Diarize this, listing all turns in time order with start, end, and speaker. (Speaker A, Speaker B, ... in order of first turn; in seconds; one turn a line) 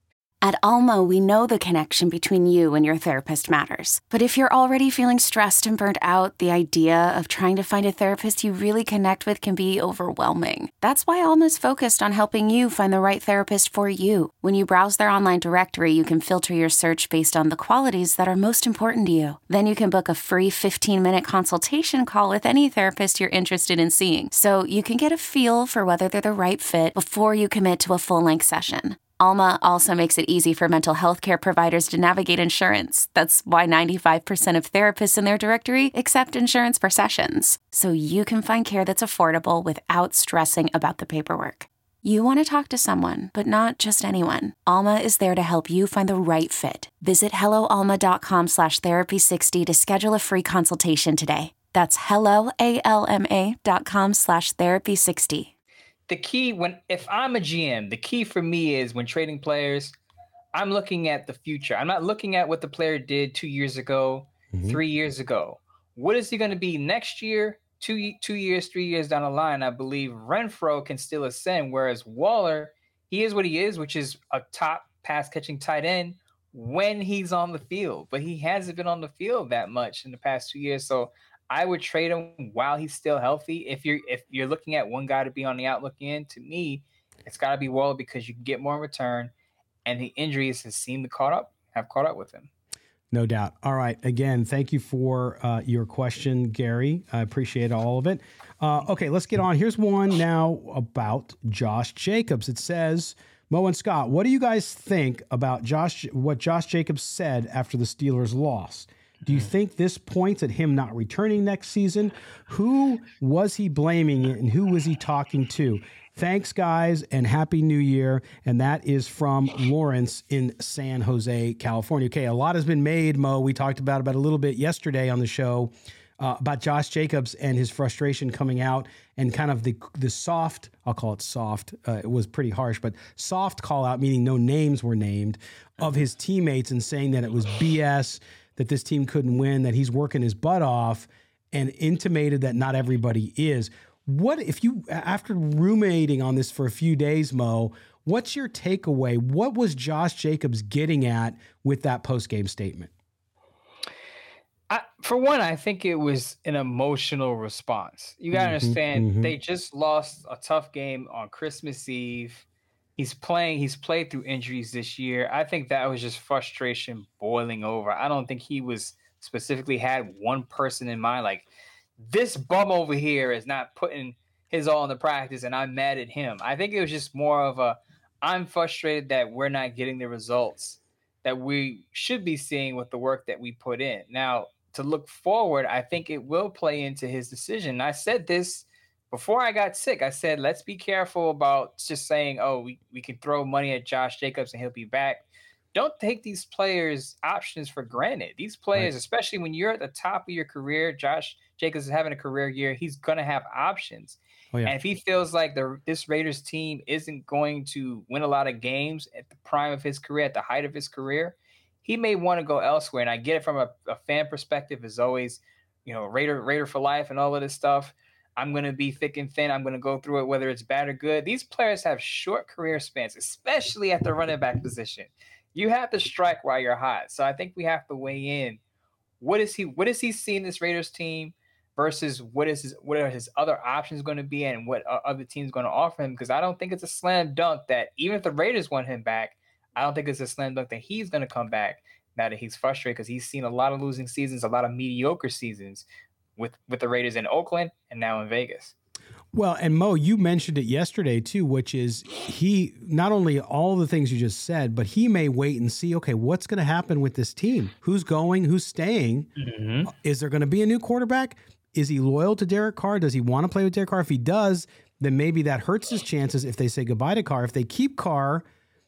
Speaker A: 0.4-55.5
Speaker B: 56.1-59.9
Speaker B: 60.5-89.3
Speaker C: 64.5-64.8
Speaker B: 89.8-92.5
Speaker C: 93.1-152.9
Speaker B: 154.7-162.4
Speaker C: 158.3-159.3
Speaker B: 163.0-171.5
Speaker B: 172.0-228.6
Speaker B: 229.2-245.8
Speaker B: 246.4-248.7
Speaker C: 249.3-259.3
Speaker B: 259.4-259.9
Speaker C: 259.9-268.4